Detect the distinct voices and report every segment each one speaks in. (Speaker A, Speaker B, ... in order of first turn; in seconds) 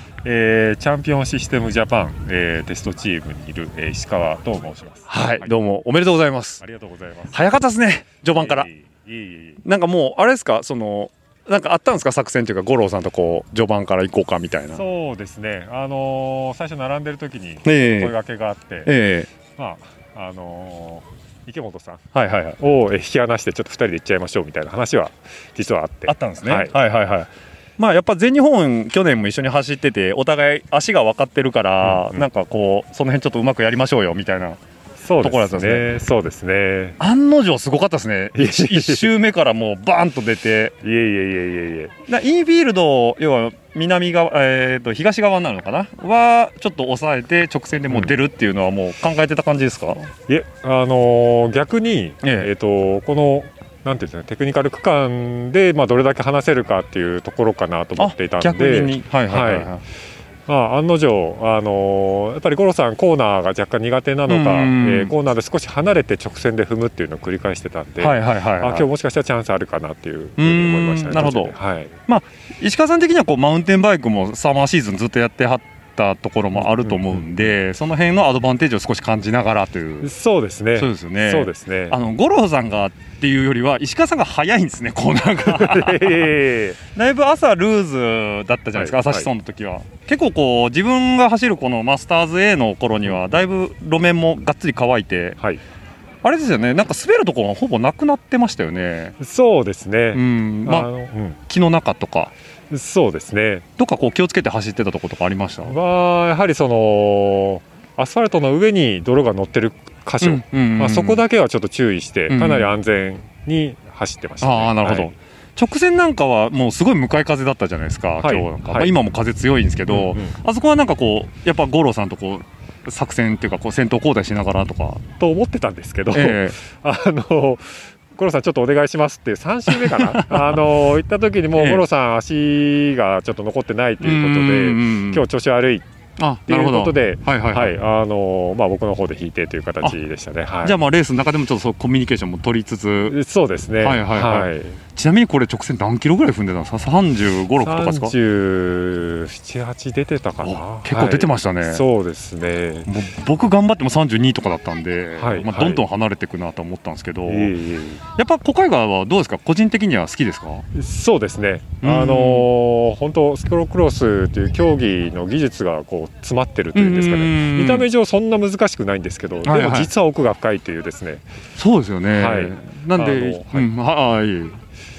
Speaker A: 0.2-5.5, 6.6-7.3, 8.3-9.6, 14.7-18.9, 19.5-22.0, 22.6-26.7, 31.8-32.2, 35.0-37.0, 38.4-39.1, 40.8-41.9, 50.3-59.7, 60.5-72.0, 76.5-77.5, 80.0-82.0, 85.5-86.8, 88.8-89.3, 99.2-101.4, 102.7-103.7, 105.7-115.1, 118.2-118.9, 119.9-120.3, 125.2-135.8, 136.5-140.8, 143.1-144.8, 147.6-152.9, 155.2-155.8, 157.2-158.0, 160.8-171.3, 172.1-173.7
Speaker B: 5.1-6.6, 7.3-8.7, 9.6-14.8, 17.6-18.1, 18.9-19.3, 22.1-22.6, 26.1-34.6, 35.2-35.9, 37.0-40.8, 42.1-50.1, 52.2-52.5, 58.0-59.8, 64.3-65.1, 68.0-68.9, 70.4-80.1, 80.8-86.3, 87.0-95.4, 96.2-99.2, 100.1-100.9, 101.5-102.3, 103.8-105.8, 110.2-111.2, 112.3-112.7, 114.4-125.0, 126.1-126.6, 129.7-130.7, 131.6-131.8, 134.0-135.3, 136.2-137.8, 140.6-143.2, 143.8-148.2, 150.4-151.8, 152.9-157.5, 158.2-160.7, 161.8-162.5, 166.8-167.9, 169.4-169.9, 171.6-174.6